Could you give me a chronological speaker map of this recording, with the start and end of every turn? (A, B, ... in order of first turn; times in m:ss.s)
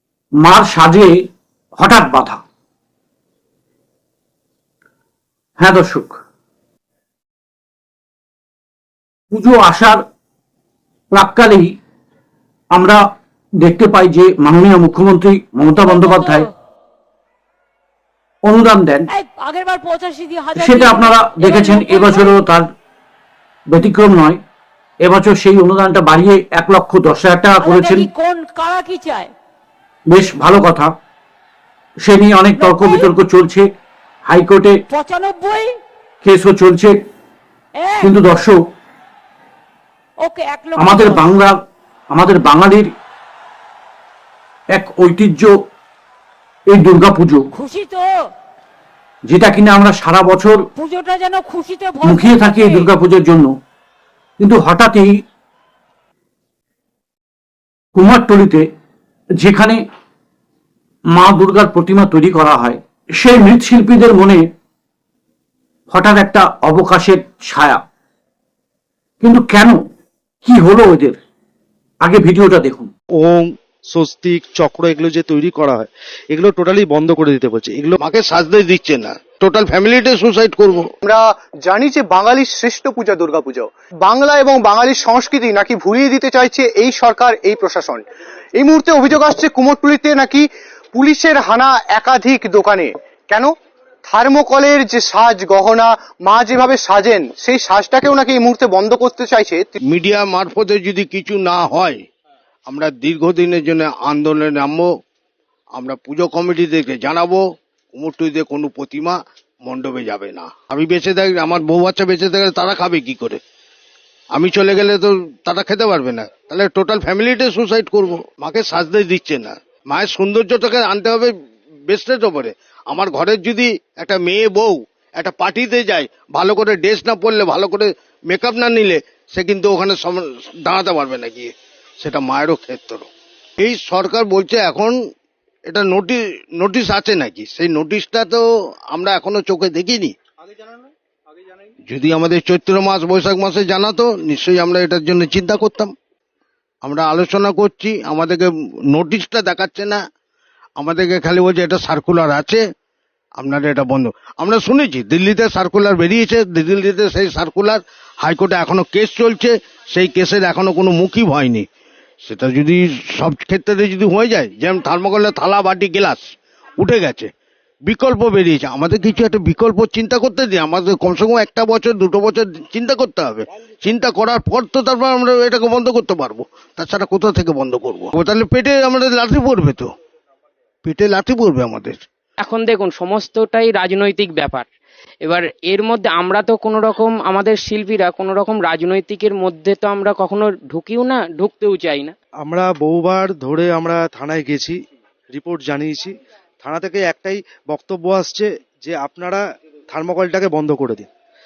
0:00.4-0:01.1 A
0:01.8-0:02.4 A
0:05.6-0:06.2 A
0:09.3-0:10.0 A
0:11.1-0:11.7 A
0:12.7-0:13.0 A
0:13.6-0:16.5 A
0:15.8-0:16.5 B
0:18.4-0:19.1 A
0:19.1-0:22.4 B
0:20.6-0:22.6 A
0:23.7-0:24.4 A
0:25.0-0:28.1 A
0:27.6-0:29.3 B
0:30.1-0:30.9 A
0:32.0-0:33.6 A
0:32.6-0:33.1 B
0:34.2-0:34.8 A
0:34.9-0:35.8 B
0:36.2-0:36.9 A
0:37.8-0:38.1 B
0:38.0-0:38.6 A
0:40.2-0:41.3 B
0:40.8-0:41.6 A
0:42.1-0:42.9 A
0:44.7-0:45.5 A
0:46.7-0:47.5 A
0:47.5-0:48.1 B
0:49.3-0:50.6 A
0:50.7-0:52.9 B
0:52.0-0:53.5 A
0:54.4-0:55.2 A
0:57.9-0:58.6 A
0:59.4-0:59.8 A
1:01.1-1:04.4 A
1:05.9-1:07.8 A
1:09.2-1:09.8 A
1:10.4-1:11.2 A
1:12.0-1:12.9 A
1:13.2-1:18.0 C
1:18.0-1:20.9 D
1:21.0-1:28.0 E
1:28.6-1:33.5 E
1:34.1-1:39.8 E
1:39.8-1:42.0 D
1:42.7-1:44.8 D
1:45.7-1:47.4 D
1:47.9-1:53.4 D
1:54.3-2:01.3 D
2:01.9-2:13.1 D
2:13.6-2:14.9 D
2:15.7-2:20.2 D
2:21.8-2:25.9 D
2:26.8-2:30.0 D
2:30.8-2:32.6 D
2:33.4-2:41.6 D
2:42.2-2:47.3 D
2:47.9-2:59.9 D
3:00.8-3:02.0 D
3:02.4-3:04.7 F
3:05.2-3:12.1 F
3:12.4-3:14.8 C
3:15.3-3:21.1 C